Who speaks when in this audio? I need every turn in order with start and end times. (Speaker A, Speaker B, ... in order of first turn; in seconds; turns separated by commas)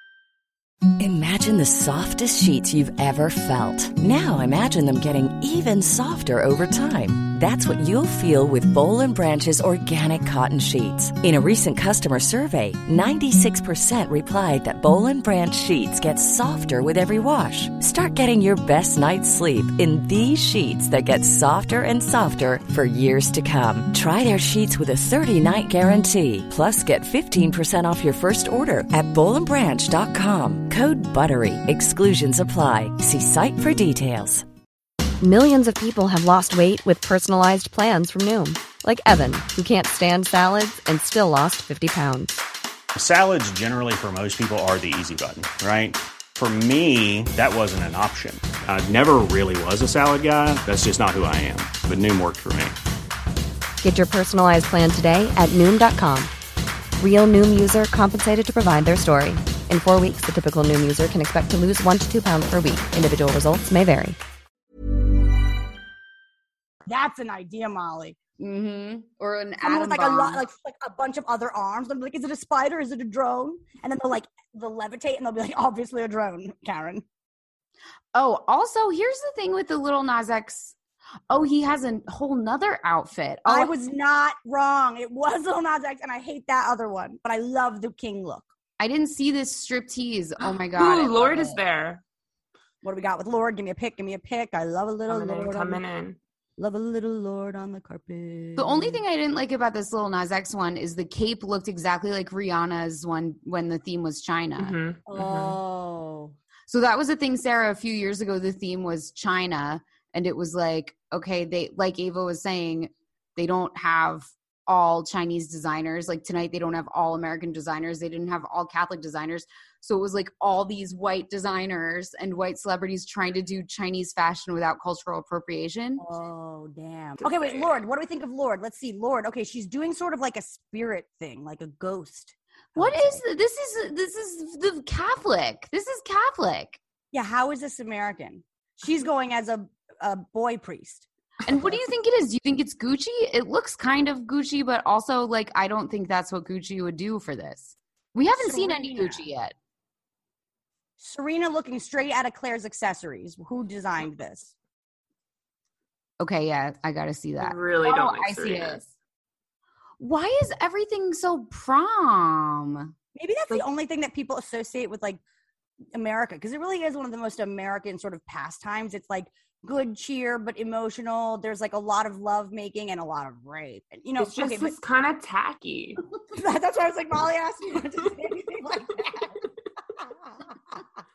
Speaker A: 1.0-34.5, Speaker B: 35.2-42.4, Speaker C: 43.0-52.8, Speaker B: 53.8-56.3, Speaker B: 57.0-64.2, Speaker D: 66.9-68.2, Speaker E: 68.4-70.4, Speaker D: 69.6-77.0, Speaker E: 78.1-80.8, Speaker E: 81.3-83.7, Speaker D: 83.5-88.5, Speaker E: 88.8-91.6, Speaker F: 90.4-92.0, Speaker D: 92.8-95.8, Speaker F: 95.1-96.2, Speaker D: 96.6-99.0, Speaker E: 98.6-104.8, Speaker F: 104.6-105.6, Speaker D: 105.1-106.4, Speaker E: 106.7-126.0, Speaker D: 126.0-133.2, Speaker F: 127.2-127.8, Speaker E: 132.8-136.8, Speaker D: 137.1-141.1, Speaker E: 141.5-149.6, Speaker D: 148.4-149.2, Speaker D: 151.0-154.5, Speaker E: 156.2-158.8, Speaker F: 157.4-158.9, Speaker E: 160.0-162.9, Speaker D: 163.2-165.2, Speaker D: 165.9-174.8, Speaker F: 174.2-176.0, Speaker D: 176.3-179.4